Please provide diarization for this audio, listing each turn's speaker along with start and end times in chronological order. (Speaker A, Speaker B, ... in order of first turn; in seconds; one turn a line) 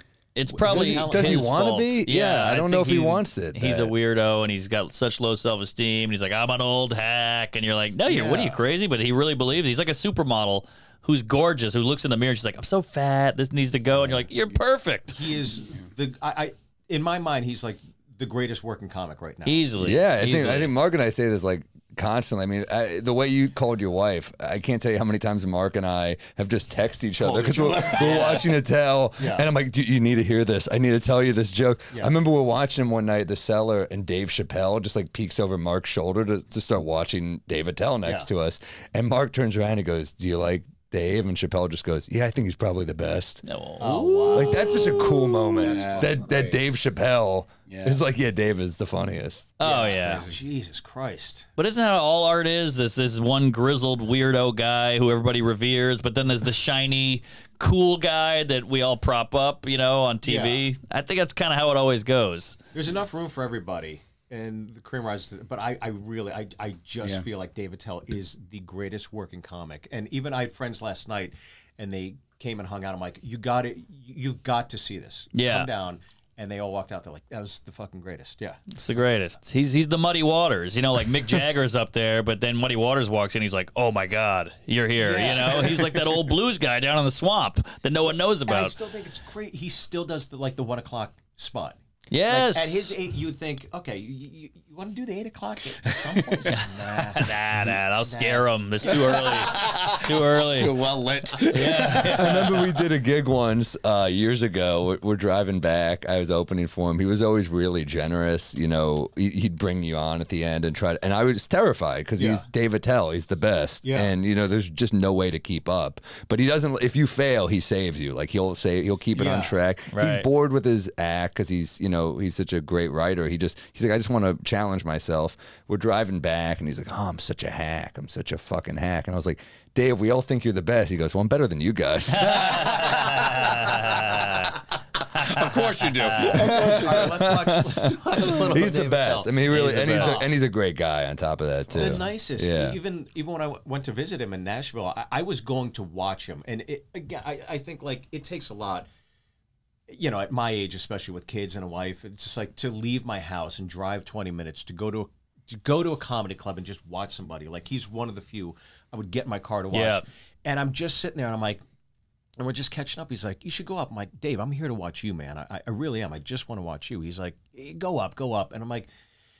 Speaker A: 0.3-15.2
Speaker B: 0.5-1.6
Speaker C: 0.7-3.9
Speaker B: 8.1-8.6
Speaker B: 15.1-19.7
Speaker A: 19.4-20.7
Speaker C: 19.8-43.4
Speaker B: 27.2-28.5
Speaker D: 27.6-27.9
Speaker B: 29.2-29.5
Speaker A: 43.5-45.0
Speaker B: 43.8-45.1
Speaker C: 44.3-49.6
Speaker D: 45.6-46.6
Speaker B: 45.6-46.1
Speaker D: 47.7-48.0
Speaker A: 49.6-50.3
Speaker B: 49.6-51.5
Speaker A: 51.6-62.6
Speaker B: 60.2-60.6
Speaker B: 62.7-78.6
Speaker A: 75.3-75.7
Speaker A: 78.8-88.8
Speaker B: 85.0-86.1
Speaker B: 88.1-97.3
Speaker A: 92.1-92.9
Speaker A: 96.6-100.8
Speaker B: 98.0-98.5
Speaker D: 99.1-102.6
Speaker A: 101.5-102.6
Speaker C: 102.1-133.1
Speaker B: 112.2-112.5
Speaker B: 113.8-114.1
Speaker B: 119.2-119.5
Speaker A: 119.9-120.3
Speaker A: 132.2-134.5
Speaker D: 135.1-137.2
Speaker A: 136.0-136.3
Speaker B: 136.2-140.3
Speaker C: 136.3-142.8
Speaker B: 141.7-148.9
Speaker B: 149.9-161.6
Speaker A: 159.7-160.1
Speaker B: 162.4-168.9